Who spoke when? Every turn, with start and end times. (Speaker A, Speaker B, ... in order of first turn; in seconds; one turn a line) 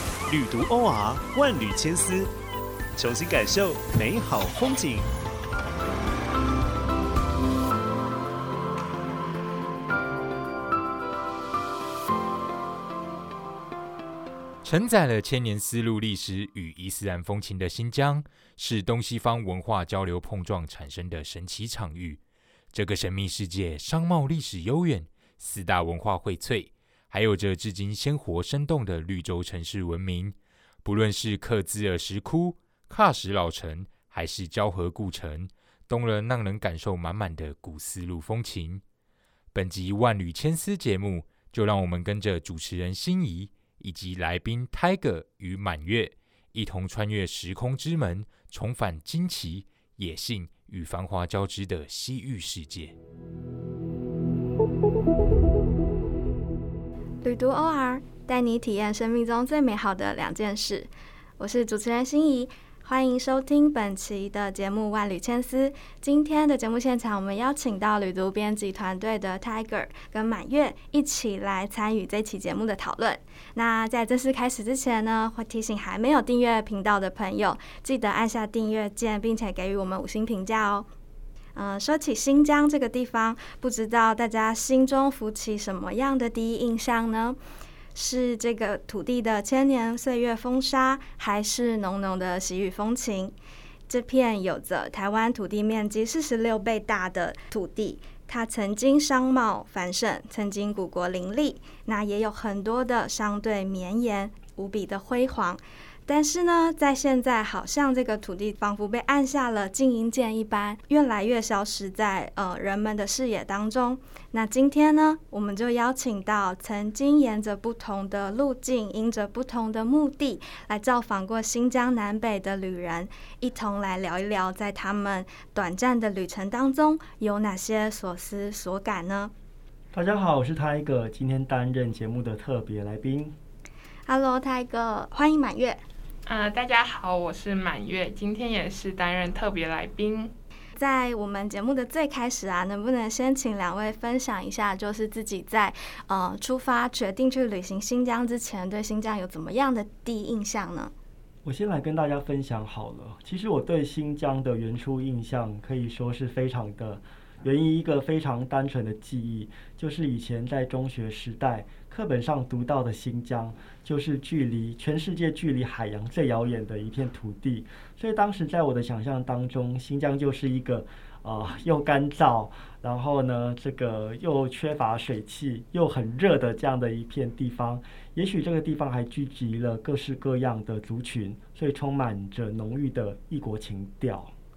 Speaker A: 0.3-2.3
Speaker A: 3.0-5.1
Speaker B: 14.6-22.2
Speaker B: 22.7-38.8
Speaker B: 39.5-53.0
Speaker C: 57.2-80.9
Speaker C: 81.5-87.4
Speaker C: 88.0-93.3
Speaker C: 93.9-129.3
Speaker D: 129.9-133.3
Speaker C: 134.1-135.8
Speaker E: 136.3-140.3
Speaker C: 140.8-150.9
Speaker D: 151.4-184.3